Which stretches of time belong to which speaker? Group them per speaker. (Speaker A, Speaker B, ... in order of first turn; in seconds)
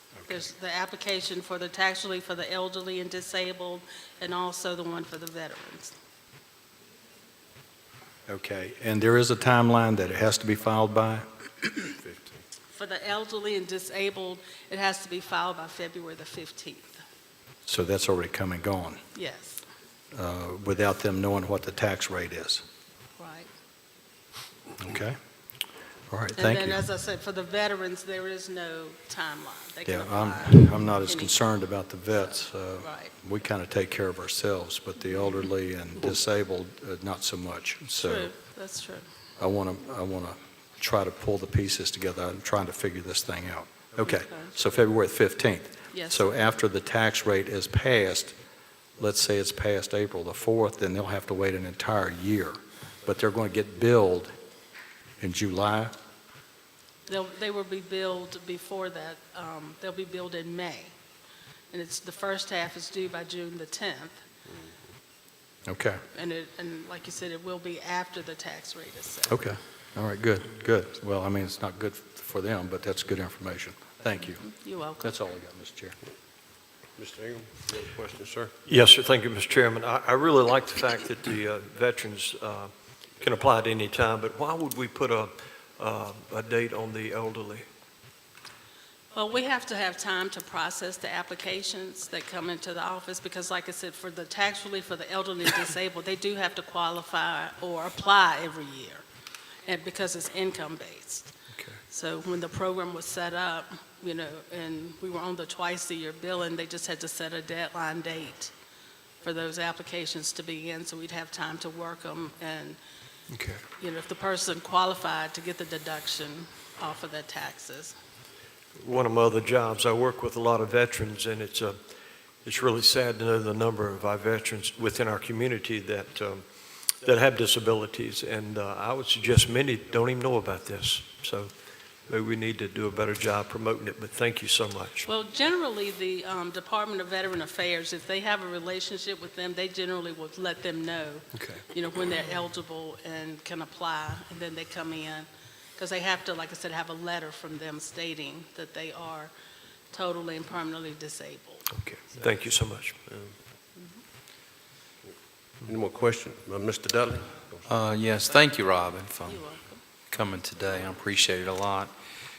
Speaker A: 0.3-5.9, 12.7-17.0, 19.1-19.6, 23.2-23.5, 26.4-31.4, 32.8-33.1, 38.0-39.0, 44.0-44.5, 45.9-46.2, 57.1-60.9, 61.7-64.2, 66.1-69.4, 74.4-75.1, 89.1-99.0, 99.7-101.3, 101.9-108.5, 109.2-112.8, 113.8-117.9, 135.0-149.3, 149.9-151.7, 159.2-159.8
Speaker B: 8.3-11.2, 17.7-19.0, 20.1-22.6, 24.8-25.2, 26.1-26.8, 29.9-38.3, 39.4-48.3, 49.0-54.3, 55.2-55.9, 65.7-66.0, 69.3-74.5, 75.0-75.9
Speaker C: 11.9-12.4, 77.0-78.5, 155.6-157.7
Speaker D: 78.7-87.7, 101.5-101.8, 113.3-113.6, 118.8-131.5, 132.1-135.0, 141.3-141.6, 151.7-153.3
Speaker E: 157.7-159.6, 160.1-161.9